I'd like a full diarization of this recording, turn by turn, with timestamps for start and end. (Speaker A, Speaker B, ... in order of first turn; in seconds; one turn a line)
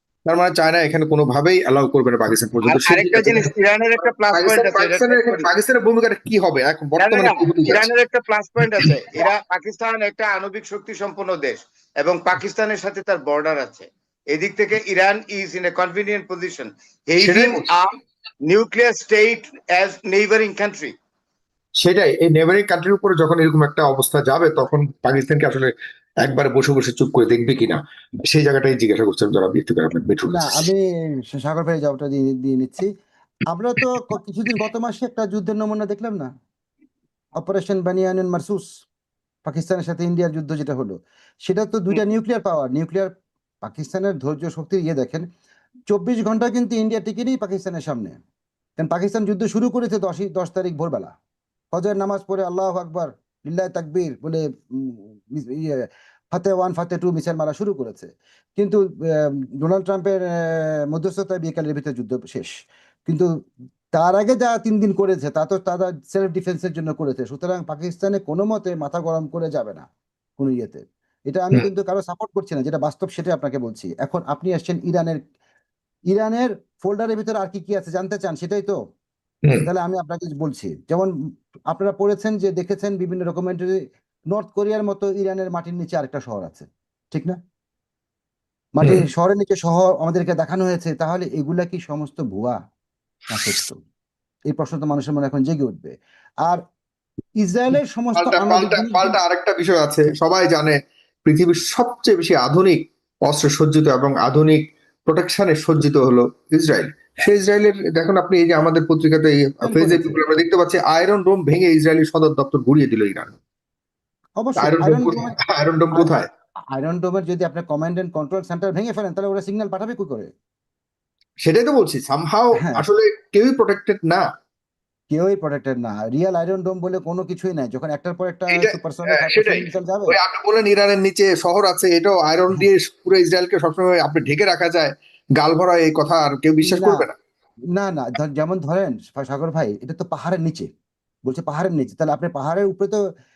Speaker A: 0.3-7.9
Speaker B: 2.6-5.5
Speaker B: 7.0-17.9
Speaker A: 17.2-17.7
Speaker B: 18.5-20.9
Speaker A: 21.8-25.7
Speaker A: 26.2-30.7
Speaker C: 30.3-32.9
Speaker C: 33.5-36.3
Speaker C: 37.4-38.6
Speaker C: 39.5-41.0
Speaker C: 41.5-43.1
Speaker C: 43.6-45.2
Speaker C: 45.9-48.1
Speaker C: 48.8-51.1
Speaker C: 51.7-62.5
Speaker C: 63.9-69.8
Speaker C: 70.4-75.2
Speaker C: 76.1-78.8
Speaker C: 79.6-81.1
Speaker C: 81.7-83.8
Speaker C: 84.3-87.4
Speaker C: 88.8-92.6
Speaker C: 93.3-93.8
Speaker C: 94.5-95.9
Speaker C: 97.4-99.1
Speaker A: 98.2-113.3
Speaker C: 109.6-110.2
Speaker C: 114.4-115.3
Speaker A: 114.6-116.3
Speaker C: 116.7-120.3
Speaker A: 121.4-124.2
Speaker C: 122.6-122.8
Speaker C: 125.1-130.2
Speaker A: 128.5-137.1
Speaker C: 136.6-137.1
Speaker C: 137.7-140.7
Speaker C: 141.2-143.0